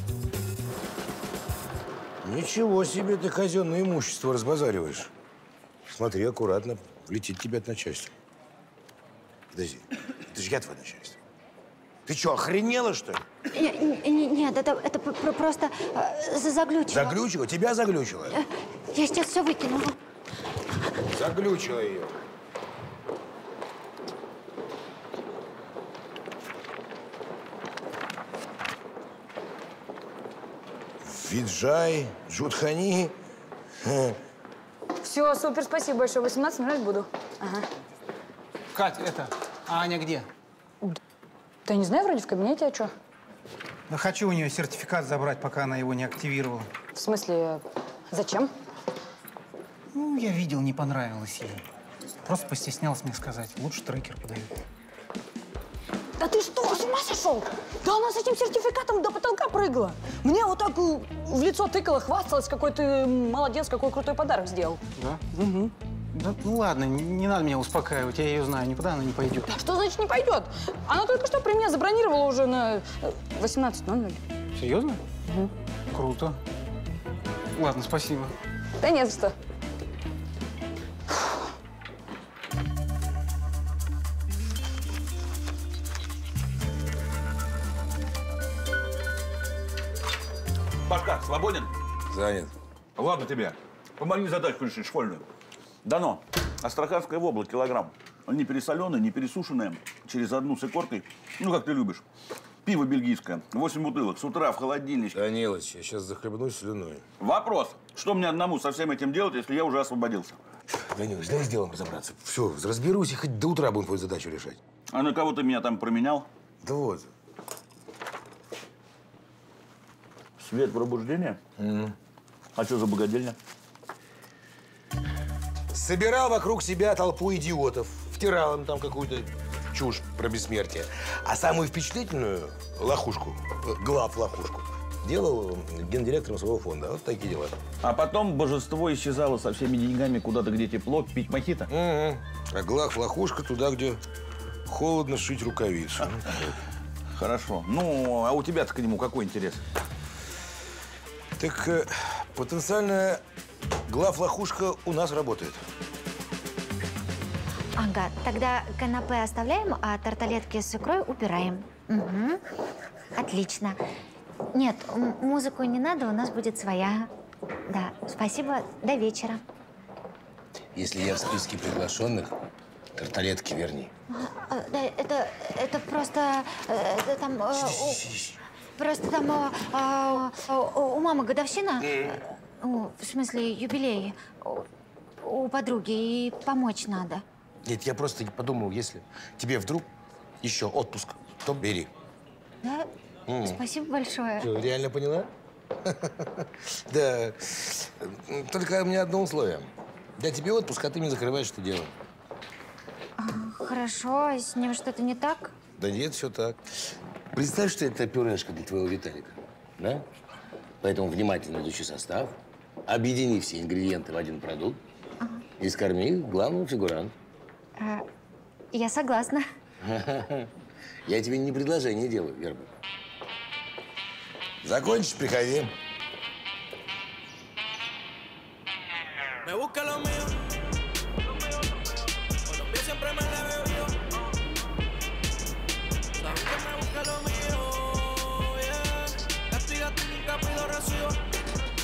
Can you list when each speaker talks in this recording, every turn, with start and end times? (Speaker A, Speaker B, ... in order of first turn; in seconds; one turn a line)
Speaker A: 2.2-5.1
Speaker A: 5.9-8.1
Speaker A: 9.5-11.2
Speaker A: 12.1-13.2
Speaker B: 13.5-17.2
Speaker A: 16.9-18.4
Speaker B: 18.3-19.9
Speaker A: 21.1-22.1
Speaker A: 31.0-33.1
Speaker A: 33.8-34.2
Speaker C: 35.0-37.6
Speaker D: 38.7-40.3
Speaker C: 41.6-42.9
Speaker D: 43.9-46.7
Speaker C: 46.9-48.5
Speaker D: 49.9-51.6
Speaker D: 52.2-54.5
Speaker C: 56.2-64.8
Speaker D: 65.0-69.5
Speaker C: 69.5-74.2
Speaker D: 74.5-75.0
Speaker D: 75.9-76.4
Speaker D: 77.5-78.3
Speaker C: 78.8-79.3
Speaker E: 90.8-91.7
Speaker A: 92.1-92.5
Speaker E: 93.0-95.2
Speaker E: 95.8-102.0
Speaker E: 102.6-105.2
Speaker A: 105.1-107.0
Speaker E: 107.2-110.4
Speaker A: 110.8-114.6
Speaker E: 114.9-116.2
Speaker A: 116.6-117.1
Speaker E: 120.4-121.4
Speaker A: 121.6-121.9
Speaker E: 122.6-123.3
Speaker A: 125.7-137.6
Speaker E: 137.8-141.7
Speaker A: 141.7-144.0
Speaker A: 144.7-146.4
Speaker E: 147.2-149.6
Speaker A: 151.4-153.2
Speaker A: 153.9-155.6
Speaker B: 157.8-162.4
Speaker B: 163.2-163.8
Speaker B: 164.5-167.1
Speaker B: 167.7-169.4
Speaker A: 170.7-172.3
Speaker A: 172.9-173.9
Speaker B: 174.1-178.1
Speaker A: 177.5-178.4
Speaker B: 178.8-184.7
Speaker A: 181.8-182.2
Speaker B: 185.2-187.2
Speaker A: 187.6-189.9
Speaker A: 190.4-191.9
Speaker B: 192.6-192.9
Speaker A: 193.3-193.6
Speaker B: 193.4-194.5
Speaker A: 194.4-195.3
Speaker A: 195.8-201.9
Speaker B: 203.2-205.5
Speaker A: 205.8-206.6
Speaker A: 207.3-210.0
Speaker A: 210.8-214.8
Speaker A: 215.6-217.1
Speaker B: 217.8-218.0
Speaker B: 218.7-219.4
Speaker A: 219.8-220.5
Speaker A: 221.1-222.7
Speaker A: 224.6-225.7
Speaker F: 229.4-230.4
Speaker F: 231.3-231.9
Speaker F: 232.4-234.1
Speaker F: 236.2-241.2